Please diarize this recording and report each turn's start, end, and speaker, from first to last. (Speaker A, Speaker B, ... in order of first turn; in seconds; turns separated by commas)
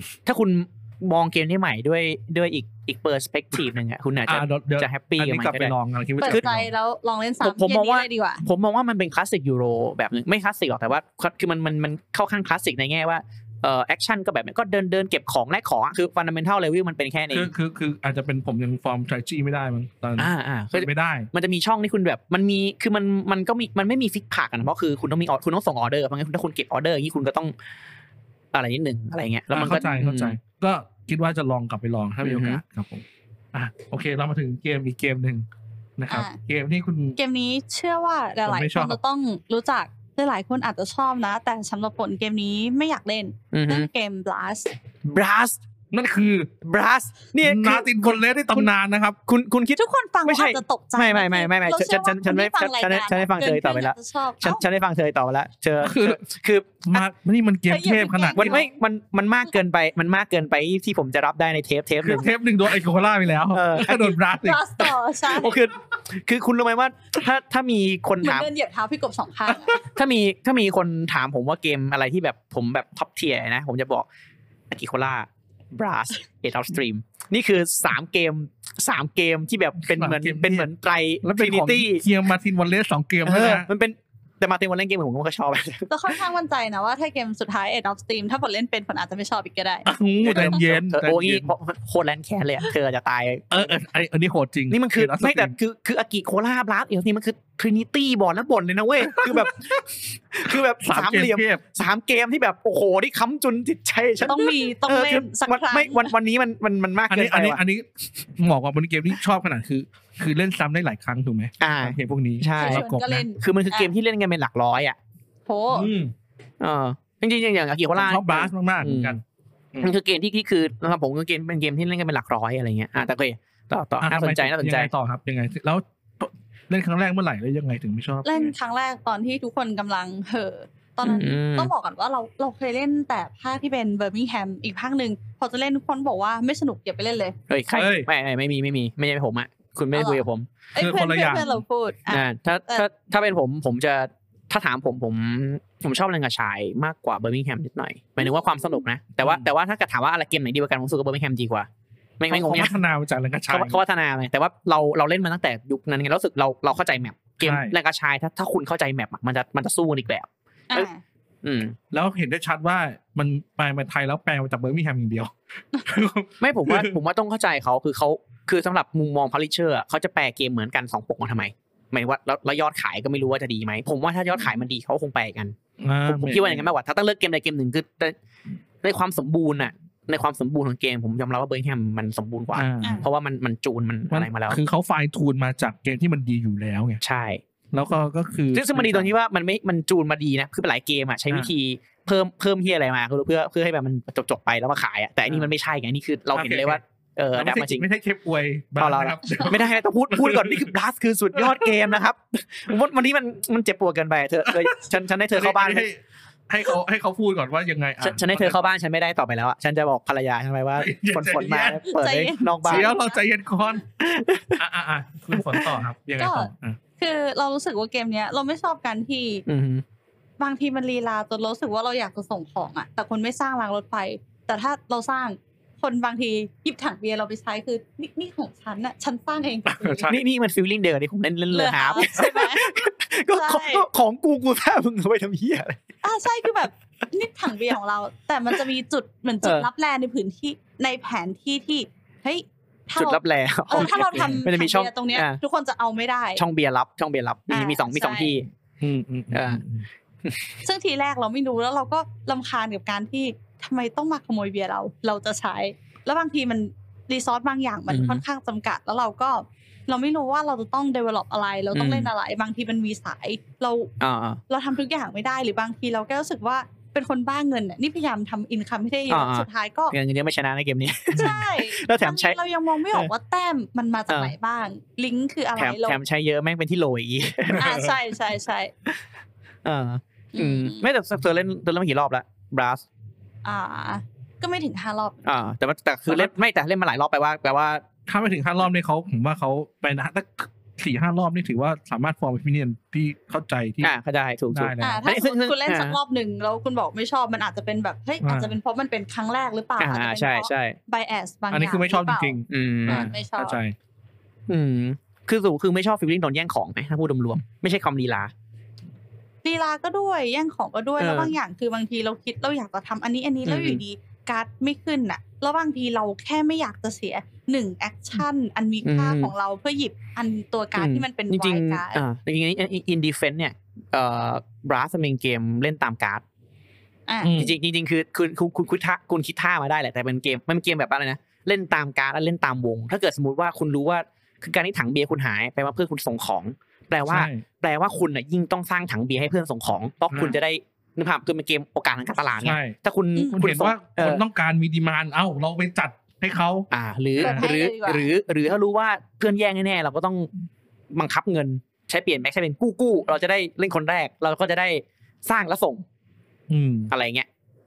Speaker A: 0.3-5.7, Speaker B: 4.3-6.7, Speaker C: 6.2-8.4, Speaker A: 7.4-17.5, Speaker B: 17.3-21.3, Speaker A: 20.2-27.5, Speaker A: 28.5-30.4, Speaker B: 29.5-35.5, Speaker A: 32.2-32.6, Speaker B: 36.0-37.2, Speaker C: 36.1-36.4, Speaker C: 37.2-44.7, Speaker B: 38.4-39.0, Speaker A: 43.5-43.9, Speaker A: 45.1-45.6, Speaker B: 45.9-46.5, Speaker A: 46.6-48.7, Speaker B: 47.4-49.2, Speaker A: 49.3-57.0, Speaker C: 49.8-54.6, Speaker B: 55.8-56.2, Speaker B: 56.9-58.6, Speaker C: 57.7-58.7, Speaker A: 58.4-62.3, Speaker B: 62.0-64.9, Speaker A: 63.5-64.1, Speaker C: 63.9-65.6, Speaker A: 65.3-68.5, Speaker C: 68.2-69.8, Speaker B: 69.5-69.8, Speaker A: 69.9-74.1, Speaker A: 74.7-82.0, Speaker B: 79.8-80.7, Speaker B: 81.2-83.7, Speaker A: 83.2-86.2, Speaker C: 85.9-90.5, Speaker B: 89.9-91.5, Speaker A: 90.2-93.7, Speaker B: 93.5-95.5, Speaker A: 94.7-107.6, Speaker B: 99.0-99.8, Speaker B: 100.5-101.6, Speaker C: 104.2-106.1, Speaker B: 107.1-113.3, Speaker A: 111.6-112.9, Speaker C: 112.5-113.9, Speaker A: 113.4-115.0, Speaker C: 115.5-115.9, Speaker B: 115.7-116.1, Speaker A: 116.6-119.2, Speaker B: 118.0-119.2, Speaker A: 119.8-124.9, Speaker B: 124.0-128.5, Speaker C: 128.2-137.4, Speaker A: 131.0-131.7, Speaker A: 137.5-140.5, Speaker B: 137.7-138.1, Speaker C: 139.9-142.8, Speaker B: 140.8-141.6, Speaker A: 142.1-151.7, Speaker C: 148.2-148.7, Speaker B: 149.2-149.5, Speaker A: 152.2-152.8, Speaker B: 152.3-153.8, Speaker A: 153.5-160.9, Speaker B: 157.4-157.7, Speaker C: 160.7-161.0, Speaker A: 161.4-161.8, Speaker B: 161.9-167.0, Speaker A: 166.4-178.2, Speaker B: 175.8-176.7, Speaker A: 178.8-184.6, Speaker B: 182.6-183.0, Speaker B: 184.1-187.0, Speaker A: 187.0-187.4, Speaker B: 187.7-189.1, Speaker A: 188.5-197.8, Speaker B: 196.3-196.8, Speaker B: 197.3-200.7, Speaker A: 198.8-205.9, Speaker B: 201.3-201.8, Speaker B: 204.5-208.7, Speaker A: 208.0-213.0, Speaker B: 210.8-211.9, Speaker C: 211.9-213.2, Speaker B: 212.6-213.8, Speaker A: 214.0-214.6, Speaker B: 214.6-216.8, Speaker A: 215.3-215.7, Speaker C: 216.2-219.4, Speaker A: 219.5-219.8, Speaker C: 220.4-230.1, Speaker B: 229.7-230.2, Speaker A: 230.1-235.8, Speaker C: 231.5-232.7, Speaker C: 233.3-233.8, Speaker C: 236.0-246.4, Speaker A: 239.4-239.7, Speaker A: 243.0-245.4, Speaker B: 243.8-244.5, Speaker A: 246.4-248.5, Speaker C: 247.5-248.4, Speaker B: 248.8-249.9, Speaker A: 249.3-249.6, Speaker A: 250.2-250.5, Speaker C: 250.6-263.9, Speaker A: 257.9-258.2, Speaker A: 261.7-262.1, Speaker A: 264.0-264.4, Speaker C: 264.5-269.9, Speaker A: 269.1-272.4, Speaker C: 271.1-276.0, Speaker A: 274.1-274.4, Speaker A: 275.6-277.7, Speaker B: 277.5-277.9, Speaker C: 277.6-278.7, Speaker A: 279.6-282.9, Speaker C: 280.3-280.8, Speaker C: 283.4-285.2, Speaker A: 285.2-287.8, Speaker B: 288.1-293.9, Speaker A: 293.8-296.0, Speaker B: 294.5-295.1, Speaker C: 294.8-303.6, Speaker B: 298.2-298.6, Speaker A: 299.8-300.8, Speaker B: 301.5-303.8, Speaker A: 302.5-303.1, Speaker A: 304.5-308.3, Speaker C: 309.4-322.0, Speaker A: 311.0-311.3, Speaker A: 313.4-313.8, Speaker A: 318.9-319.3, Speaker A: 320.8-326.2, Speaker C: 327.1-327.4, Speaker B: 327.2-327.5, Speaker A: 327.4-344.2, Speaker B: 337.1-337.4, Speaker B: 340.1-340.4, Speaker B: 342.4-342.8, Speaker B: 343.3-346.7, Speaker A: 346.7-350.3, Speaker C: 347.2-348.1, Speaker B: 347.2-347.5, Speaker A: 350.9-355.9, Speaker B: 356.5-356.9, Speaker A: 356.9-357.3